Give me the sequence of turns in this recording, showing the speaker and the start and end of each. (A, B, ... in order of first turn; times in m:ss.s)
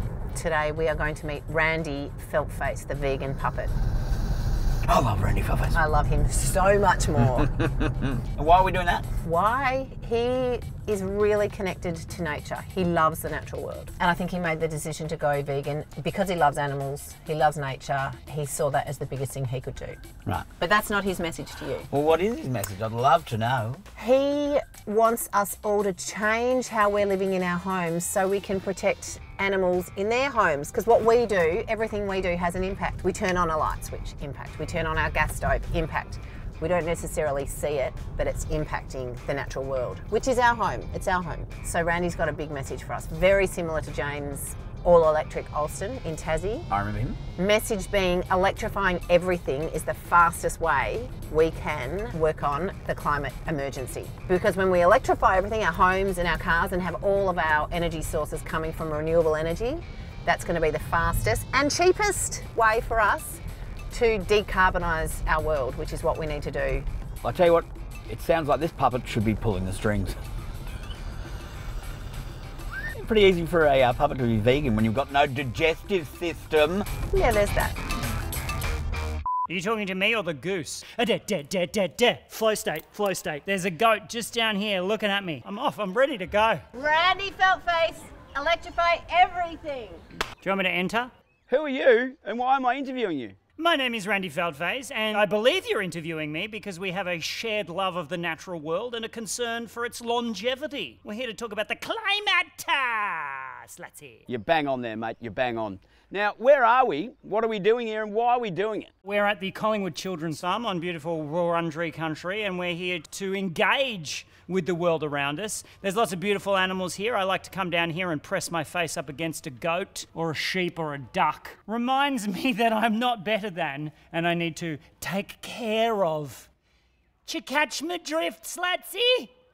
0:00.4-0:03.7 A
0:04.9-0:05.8 B
0:05.7-0:07.5 A
0:07.6-0:09.1 B
0:09.2-0:20.0 A
0:20.6-0:21.9 A
0:21.9-0:23.8 B
0:24.0-0:46.7 A
0:46.7-0:47.2 B
0:47.4-1:03.4 A
1:03.9-1:06.9 A
1:07.2-1:10.2 B
1:12.9-1:16.9 B
1:17.1-1:17.8 A
1:19.5-1:26.7 C
1:26.8-1:30.0 A
1:30.4-1:31.1 C
1:31.5-1:33.4 B
1:33.6-1:44.3 C
1:44.3-1:48.9 B
1:49.0-2:06.5 C
2:07.2-2:09.3 C